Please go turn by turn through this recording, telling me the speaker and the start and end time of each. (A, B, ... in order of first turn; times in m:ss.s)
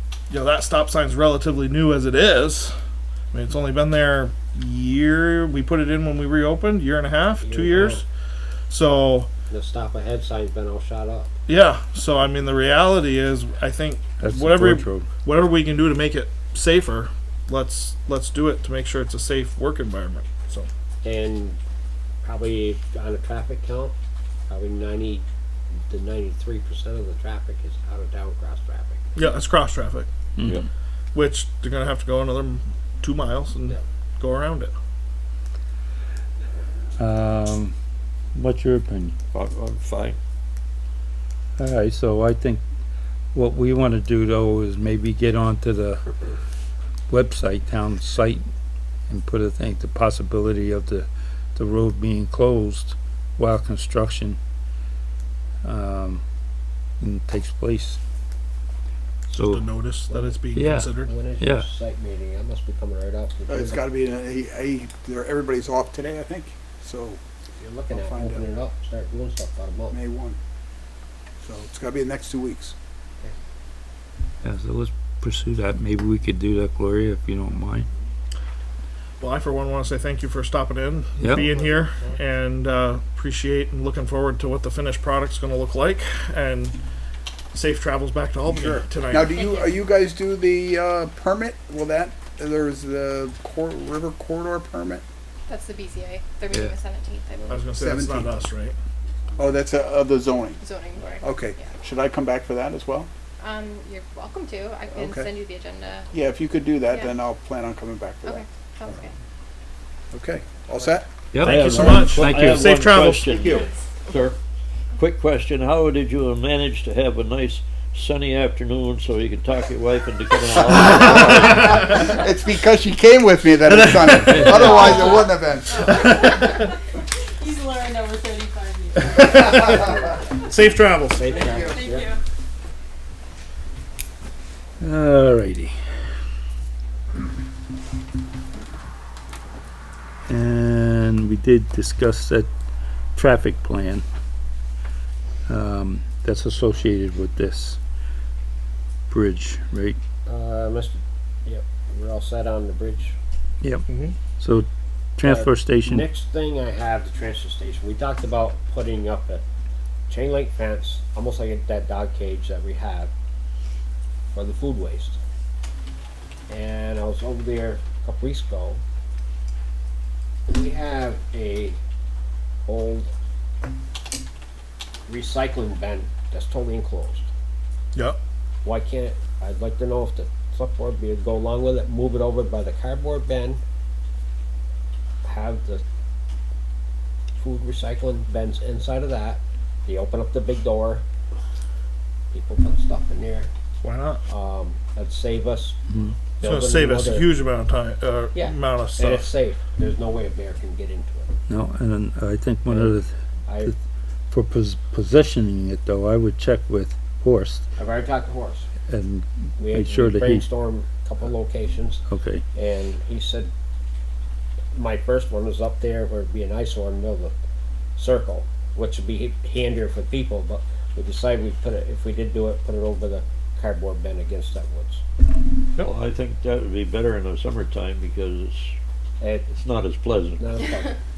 0:00.3-0:02.7 A
0:03.3-0:08.0 A
0:07.4-0:08.0 B
0:08.7-0:09.3 A
0:09.5-0:11.3 B
0:11.5-0:20.7 A
0:14.2-0:15.1 C
0:21.0-0:21.6 B
0:22.2-0:23.9 B
0:24.5-0:25.2 B
0:25.9-0:29.1 B
0:29.1-0:30.1 A
0:30.4-0:30.6 C
0:31.1-0:34.7 A
0:37.0-0:37.7 C
0:38.3-0:39.1 C
0:39.3-0:40.2 D
0:41.6-0:42.6 C
0:43.3-0:46.0 C
0:47.1-0:48.4 C
0:49.1-0:54.4 C
0:55.6-0:56.2 C
0:57.0-0:58.0 C
0:59.3-0:59.6 C
0:59.4-1:01.1 A
1:00.5-1:01.7 C
1:01.0-1:03.8 B
1:03.5-1:07.2 E
1:07.6-1:10.0 B
1:07.9-1:08.5 E
1:09.9-1:10.4 E
1:11.4-1:12.7 E
1:14.4-1:17.9 C
1:19.2-1:26.8 A
1:21.2-1:21.5 C
1:27.5-1:29.3 A
1:28.5-1:35.0 E
1:29.3-1:29.8 F
1:35.5-1:37.6 F
1:37.5-1:38.7 A
1:37.6-1:38.4 E
1:39.4-1:40.6 E
1:40.6-1:41.7 F
1:41.2-1:43.1 E
1:43.4-1:46.1 F
1:44.9-1:45.3 E
1:46.1-1:48.4 E
1:46.9-1:47.2 F
1:48.2-1:49.1 F
1:50.1-1:51.1 E
1:51.3-1:52.8 C
1:51.4-1:53.6 A
1:51.4-1:54.4 D
1:51.6-1:52.2 E
1:53.3-1:54.2 F
1:55.0-2:01.7 D
2:00.9-2:06.2 E
2:04.1-2:04.9 D
2:04.6-2:05.3 F
2:05.8-2:06.6 F
2:05.9-2:06.6 A
2:07.4-2:09.2 F
2:09.0-2:09.9 A
2:10.4-2:11.4 A
2:11.1-2:12.1 B
2:11.4-2:11.8 E
2:11.6-2:12.2 F
2:14.8-2:15.7 C
2:20.3-2:22.5 C
2:23.1-2:24.0 C
2:25.4-2:27.8 C
2:29.1-2:30.0 C
2:30.2-2:33.2 B
2:33.9-2:34.1 A
2:34.4-2:36.1 C
2:35.2-2:39.4 B
2:40.1-2:43.1 B
2:44.3-2:45.2 B
2:46.5-2:48.8 B
2:50.5-2:51.8 B
2:52.6-2:53.1 B
2:55.1-2:57.3 B
2:58.6-3:03.6 B
3:05.2-3:05.8 B
3:07.4-3:11.0 B
3:12.3-3:13.5 B
3:13.8-3:14.2 A
3:14.3-3:15.8 B
3:16.4-3:17.3 B
3:16.4-3:19.3 A
3:18.3-3:21.3 B
3:21.5-3:23.8 C
3:22.6-3:23.7 B
3:24.3-3:27.6 C
3:27.8-3:28.7 B
3:28.9-3:30.4 C
3:29.6-3:32.0 B
3:32.1-3:32.4 C
3:32.5-3:33.5 B
3:34.7-3:37.3 B
3:38.0-3:45.0 B
3:45.8-3:48.7 D
3:49.2-3:49.5 B
3:49.5-3:50.5 D
3:50.4-3:51.0 B